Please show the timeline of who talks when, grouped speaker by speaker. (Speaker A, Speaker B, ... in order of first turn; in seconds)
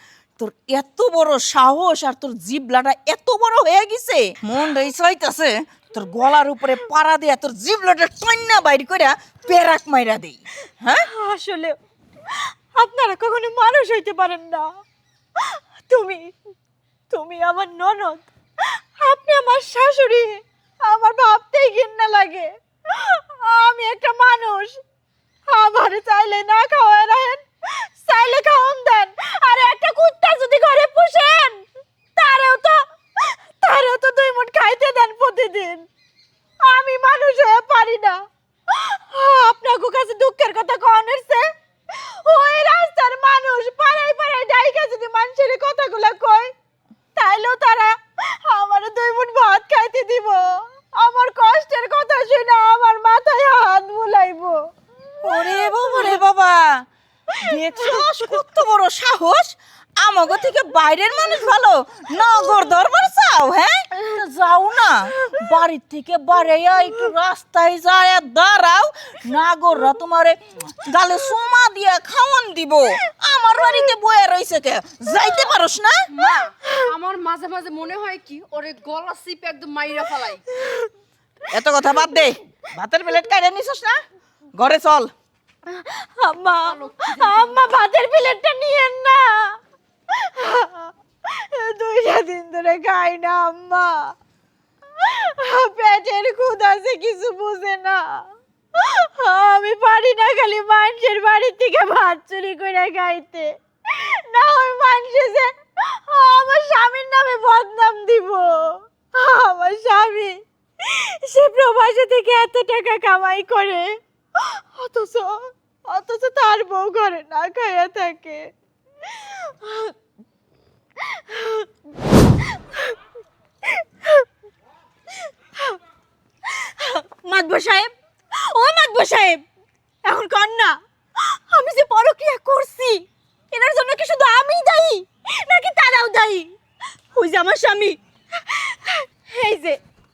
Speaker A: 0.4-11.1, 55.2-56.9, 57.4-76.0, 81.5-84.0, 84.5-85.1
Speaker B: 11.1-11.8, 12.8-14.7, 15.4-16.3, 17.1-24.8, 25.5-31.6, 32.2-35.9, 36.6-46.5, 47.2-54.6, 55.3-56.2, 85.7-89.6, 90.1-94.1, 95.0-118.4, 119.1-119.9, 121.0-121.7, 122.6-123.0, 123.7-124.2, 126.5-129.4, 130.0-136.5, 137.1-139.8
Speaker C: 76.1-80.5, 86.7-87.6